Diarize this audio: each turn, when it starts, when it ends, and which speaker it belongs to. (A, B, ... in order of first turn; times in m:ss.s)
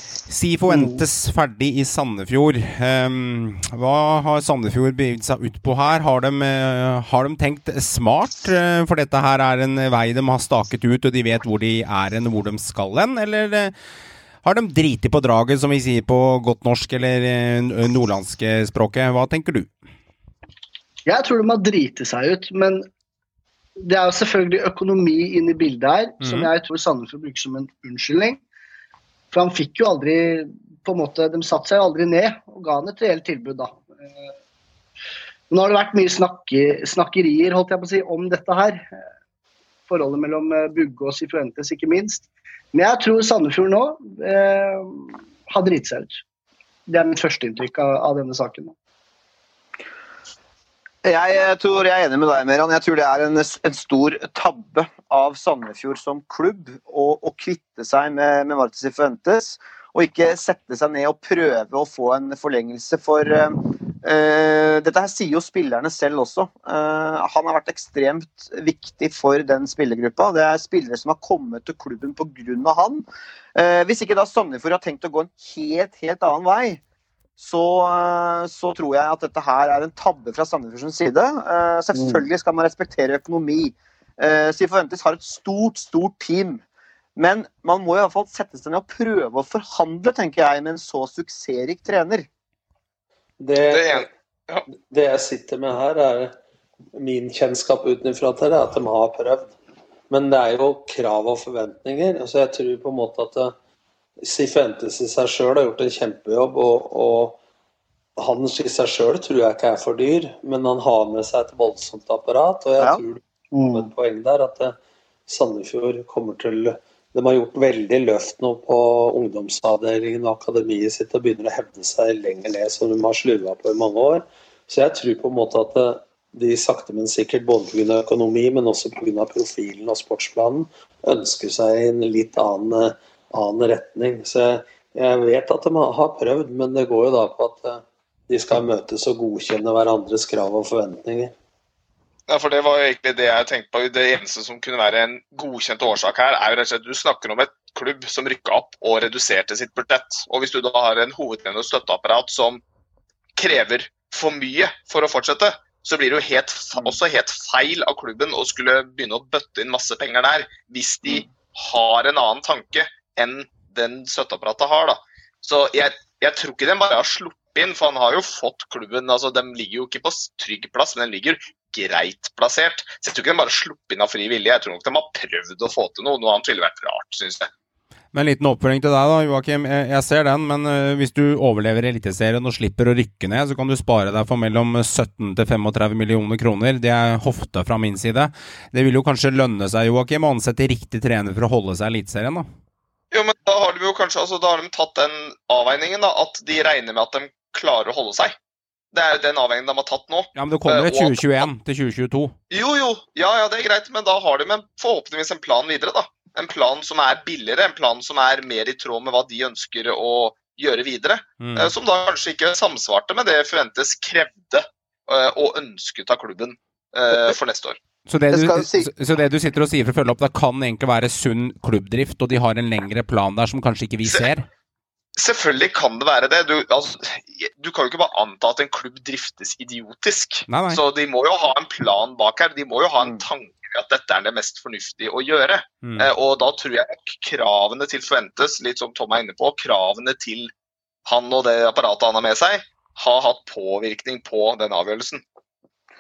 0:00.3-0:13.7 A
0:14.4-0:19.7 A
0:21.0-0:22.9 B
0:23.8-0:28.4 B
0:26.2-0:26.5 A
0:29.3-0:33.8 B
0:35.5-0:38.9 B
0:39.9-0:46.1 B
0:46.9-0:48.7 B
0:51.0-1:16.8 C
1:17.4-1:26.6 C
1:21.9-1:22.2 B
1:27.2-1:32.3 C
1:33.4-1:34.1 D
1:33.7-1:34.6 E
1:34.9-1:36.3 D
1:36.9-1:39.5 D
1:40.1-1:43.5 D
1:44.2-1:47.4 D
1:48.2-1:54.8 D
1:53.5-1:53.9 B
1:55.3-2:21.3 D
2:22.3-2:32.6 E
2:33.4-2:57.5 E
2:58.1-3:12.5 A
3:13.1-3:18.3 E
3:18.9-3:21.5 E
3:20.3-3:22.3 A
3:22.5-3:37.8 E
3:31.4-3:31.7 A
3:38.1-3:44.5 A
3:38.3-3:38.9 C
3:45.2-4:00.5 E
3:50.5-3:50.8 A
3:55.8-3:56.1 A
4:01.0-4:05.2 E